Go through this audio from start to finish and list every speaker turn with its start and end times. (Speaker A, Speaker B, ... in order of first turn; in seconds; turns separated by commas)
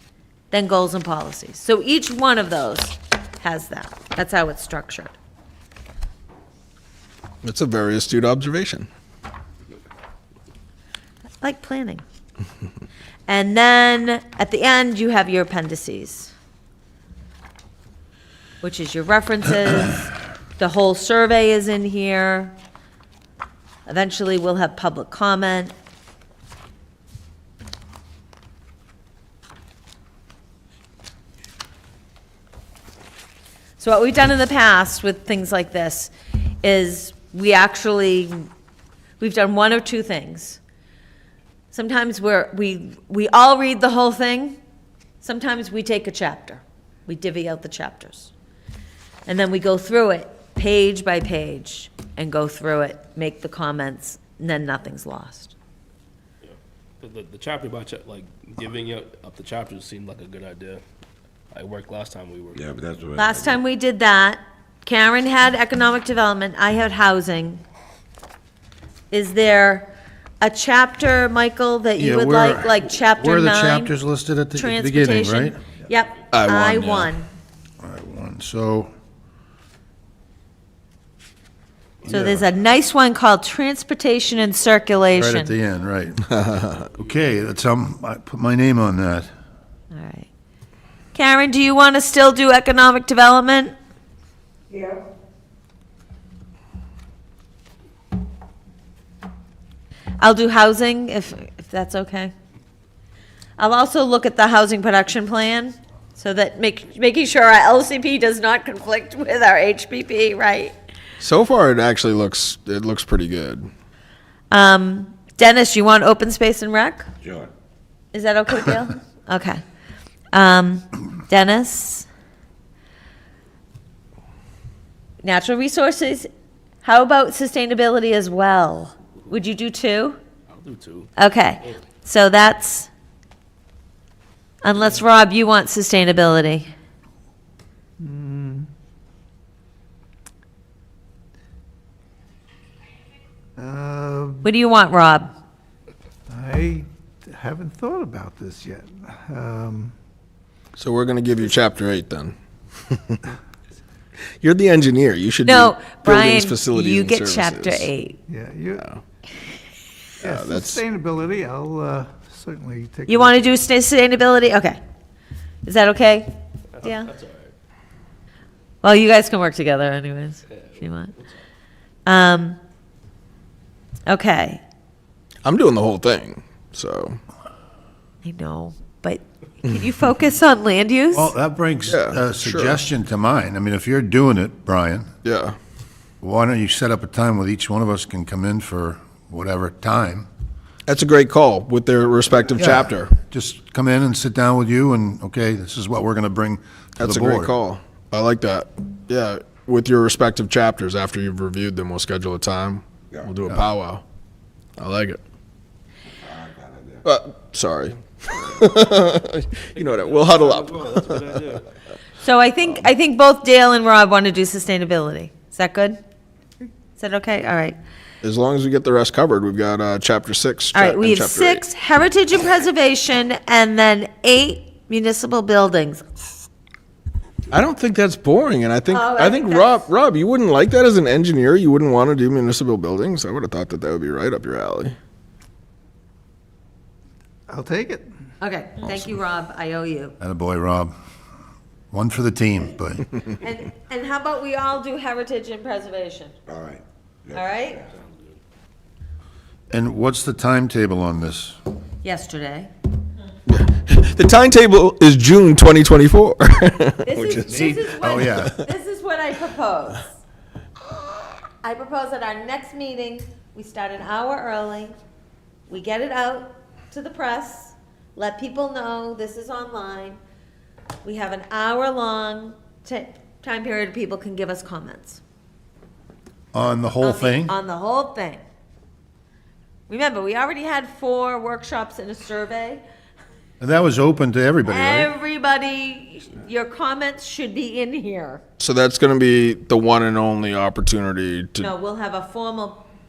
Speaker A: 0.5-5.1, Speaker B: 7.4-8.9, Speaker A: 11.4-12.0, Speaker A: 13.3-16.3, Speaker A: 18.6-22.6, Speaker A: 23.9-25.7, Speaker A: 33.8-36.1, Speaker A: 36.6-38.5, Speaker A: 39.2-40.6, Speaker A: 41.7-44.6, Speaker A: 45.2-48.3, Speaker A: 49.2-55.5, Speaker C: 56.4-60.8, Speaker C: 61.5-62.6, Speaker D: 62.5-63.3, Speaker A: 63.1-67.6, Speaker A: 69.1-69.9, Speaker A: 70.4-73.9, Speaker E: 72.0-75.6, Speaker A: 74.5-77.3, Speaker B: 76.3-77.1, Speaker E: 77.8-78.9, Speaker E: 82.0-82.5, Speaker A: 82.1-85.5, Speaker E: 85.1-86.2, Speaker B: 86.3-86.9, Speaker E: 86.9-89.3, Speaker A: 89.9-90.3, Speaker A: 91.1-93.7, Speaker A: 100.2-102.3, Speaker A: 103.6-110.7, Speaker B: 111.2-113.7, Speaker A: 114.5-117.1, Speaker D: 117.2-117.5, Speaker A: 118.1-119.6, Speaker A: 120.3-122.1, Speaker A: 125.2-126.3, Speaker A: 126.8-130.2, Speaker C: 130.5-131.1, Speaker A: 131.2-132.9, Speaker A: 134.6-136.7, Speaker F: 138.0-138.7, Speaker F: 143.6-144.4, Speaker A: 144.4-145.3, Speaker F: 146.3-149.9, Speaker B: 150.8-153.2, Speaker B: 154.4-157.9, Speaker A: 155.4-158.2, Speaker F: 158.3-158.8, Speaker B: 160.2-160.8, Speaker F: 160.2-163.5, Speaker A: 163.1-164.8, Speaker A: 165.6-167.1, Speaker C: 166.8-167.5, Speaker A: 168.8-171.1, Speaker C: 170.8-171.3, Speaker A: 172.1-172.6, Speaker A: 174.1-174.6, Speaker B: 175.4-177.2, Speaker A: 178.2-181.3, Speaker E: 181.1-185.1, Speaker B: 181.9-182.8, Speaker B: 185.2-185.6, Speaker E: 186.2-190.3, Speaker B: 190.9-193.1, Speaker E: 192.5-197.5, Speaker B: 197.0-204.0, Speaker B: 204.8-205.2, Speaker D: 206.3-207.0, Speaker B: 207.0-211.4, Speaker C: 209.8-211.7, Speaker A: 212.2-216.0, Speaker A: 216.9-217.8, Speaker B: 218.2-221.6, Speaker A: 220.7-226.2, Speaker B: 227.5-234.9, Speaker A: 228.9-229.9, Speaker F: 237.5-238.1, Speaker A: 238.4-240.1, Speaker B: 238.8-239.1, Speaker E: 240.2-240.9, Speaker E: 241.9-243.1, Speaker A: 243.3-246.3, Speaker D: 246.5-247.7, Speaker A: 247.3-247.9, Speaker E: 249.7-251.6, Speaker A: 252.0-252.7, Speaker B: 253.5-257.4, Speaker A: 257.0-260.1, Speaker E: 257.4-258.6, Speaker A: 261.6-264.9, Speaker A: 265.7-270.2, Speaker A: 271.0-275.2, Speaker E: 276.5-277.5, Speaker A: 277.0-278.4, Speaker A: 279.9-282.8, Speaker E: 283.6-285.1, Speaker A: 284.7-288.4, Speaker B: 288.6-291.7, Speaker A: 291.6-292.8